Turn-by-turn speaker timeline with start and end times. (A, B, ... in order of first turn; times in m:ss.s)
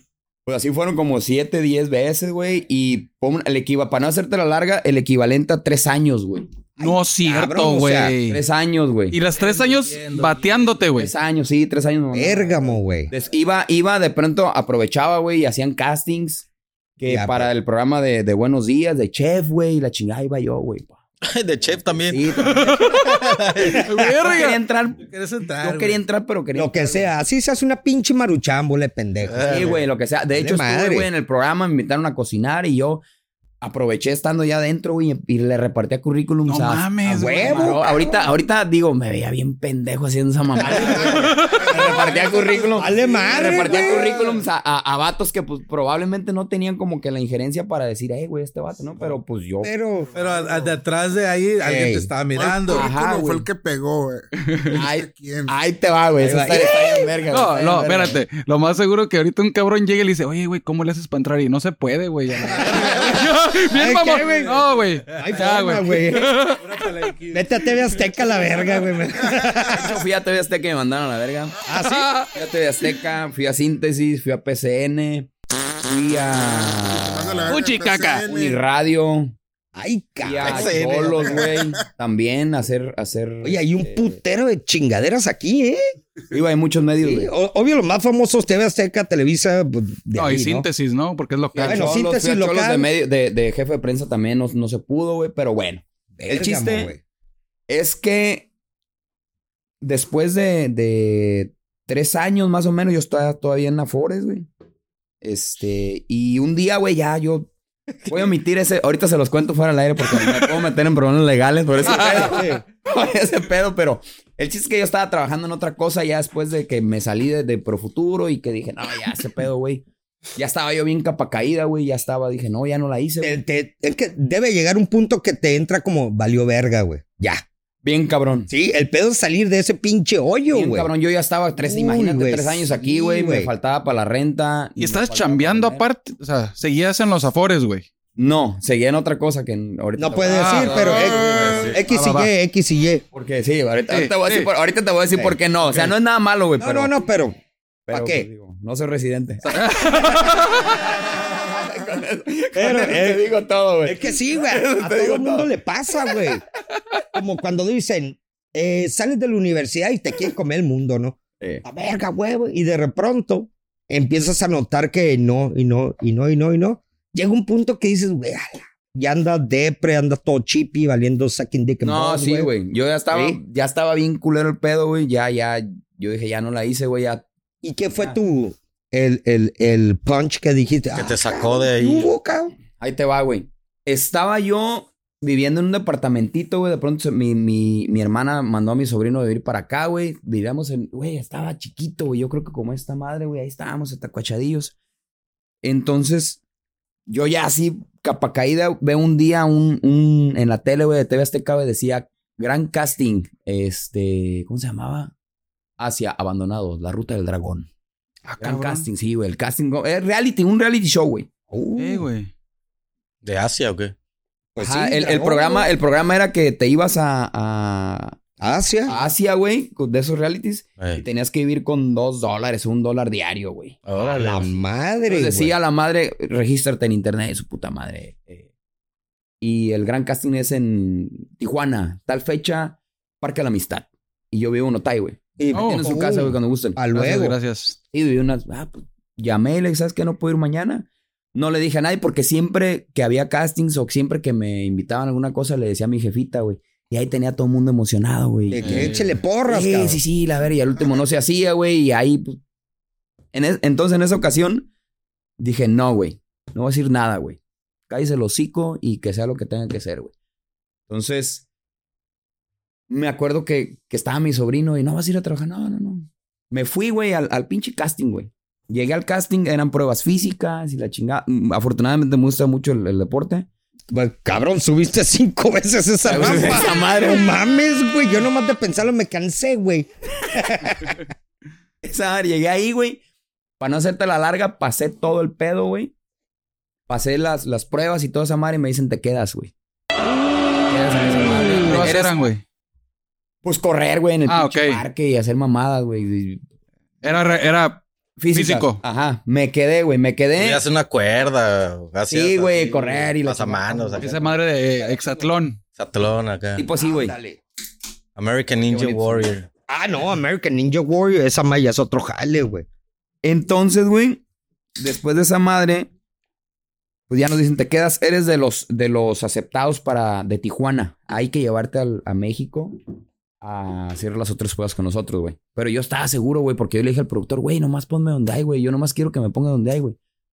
0:00.5-0:06.6 A
0:06.8-0:08.2 B
0:06.8-0:08.4 C
0:08.3-0:09.2 A
0:09.1-0:11.1 C
0:09.3-0:10.8 D
0:11.0-0:16.5 A
0:12.1-0:13.1 B
0:17.0-0:21.0 A
0:17.1-0:17.5 B
0:21.2-0:23.8 E
0:22.1-0:22.8 B
0:22.4-0:24.6 C
0:24.2-0:25.0 A
0:25.0-0:26.0 D
0:25.6-0:27.1 A
0:26.6-0:29.7 B
0:29.2-0:29.8 E
0:29.4-0:33.0 A
0:30.3-0:31.1 B
0:33.6-0:49.7 A
0:36.5-0:38.1 C
0:37.1-0:38.0 B
0:40.6-0:41.1 B
0:40.8-0:44.4 F
0:41.1-0:41.6 C
0:42.8-0:44.1 B
0:49.6-0:50.1 B
0:50.1-0:50.8 F
0:50.2-0:52.9 D
0:51.6-0:52.1 B
0:52.3-0:55.6 F
0:52.7-0:53.5 A
0:54.7-0:58.2 A
0:56.2-0:57.1 B
0:57.3-1:06.7 C
1:02.6-1:03.2 B
1:03.7-1:06.4 B
1:04.3-1:05.3 D
1:06.6-1:08.8 D
1:07.3-1:10.0 B
1:09.7-1:11.6 A
1:11.7-1:12.1 B
1:11.8-1:12.3 C
1:12.3-1:15.3 A
1:15.8-1:17.6 A
1:17.0-1:18.6 F
1:17.5-1:18.3 C
1:18.3-1:19.4 A
1:19.8-1:21.1 B
1:20.2-1:24.2 A
1:20.4-1:21.4 E
1:20.8-1:21.9 F
1:23.4-1:25.8 B
1:26.3-1:27.3 A
1:27.0-1:30.7 B
1:30.1-1:32.0 C
1:31.5-1:36.9 A
1:31.6-1:32.9 B
1:36.2-1:37.0 B
1:37.7-1:38.5 A
1:39.8-1:44.5 A
1:45.2-1:47.5 A
1:48.1-2:03.4 A
1:51.9-1:52.3 C
1:52.0-1:52.6 B
2:03.2-2:07.4 B
2:07.8-2:08.5 A
2:08.5-2:10.9 B
2:10.5-2:15.9 A
2:11.6-2:13.5 B
2:14.8-2:17.9 C
2:18.2-2:21.2 A
2:20.0-2:23.0 B
2:20.3-2:21.1 C
2:20.8-2:21.8 F
2:21.2-2:21.8 E
2:21.9-2:22.3 C
2:23.1-2:27.0 A
2:23.9-2:24.5 C
2:25.2-2:25.8 B
2:26.6-2:27.4 B
2:27.9-2:30.0 A
2:27.9-2:28.3 B
2:29.6-2:30.8 C
2:31.2-2:35.5 A
2:32.6-2:33.2 B
2:33.8-2:36.4 B
2:37.1-2:52.5 B
2:51.8-2:57.2 A
2:53.1-2:53.4 B
2:57.6-3:02.5 B
3:00.9-3:02.1 E
3:02.8-3:14.8 A
3:15.6-3:16.4 A
3:17.1-3:25.1 A
3:25.8-3:27.7 A
3:28.3-3:28.9 C
3:28.4-3:31.3 A
3:31.5-3:32.1 B
3:31.8-3:32.3 C
3:33.2-3:33.9 E
3:34.6-3:35.7 B
3:34.6-3:38.2 A
3:38.4-3:39.0 B
3:38.9-3:43.8 A
3:40.8-3:41.0 E
3:43.8-3:44.6 E
3:44.0-3:45.5 B
3:45.1-3:48.5 A
3:49.4-3:56.8 A
3:55.4-3:57.4 B
3:55.5-3:55.8 C
3:56.9-3:57.8 C
3:57.9-4:08.9 A
4:08.5-4:10.0 B
4:08.6-4:09.2 C
4:09.5-4:12.4 A
4:13.3-4:14.7 A
4:15.4-4:20.1 A
4:20.9-4:21.4 A
4:22.9-4:33.5 A
4:33.9-4:41.0 B
4:36.0-4:37.2 A
4:41.8-4:43.0 A
4:43.6-4:45.9 A
4:46.9-4:49.5 A
4:50.7-4:52.2 A
4:51.5-4:52.4 C
4:53.4-4:56.4 A
4:54.3-4:54.8 C
4:57.0-4:58.8 C
4:58.2-5:00.6 A
5:00.4-5:04.1 E
5:02.1-5:04.3 A
5:04.0-5:05.6 C
5:05.8-5:06.7 E
5:06.6-5:07.2 A
5:06.8-5:07.4 B
5:08.2-5:09.5 E
5:08.7-5:09.3 A
5:09.7-5:12.7 B
5:13.2-5:14.2 A
5:14.8-5:15.9 A
5:17.1-5:22.8 A
5:23.4-5:30.0 A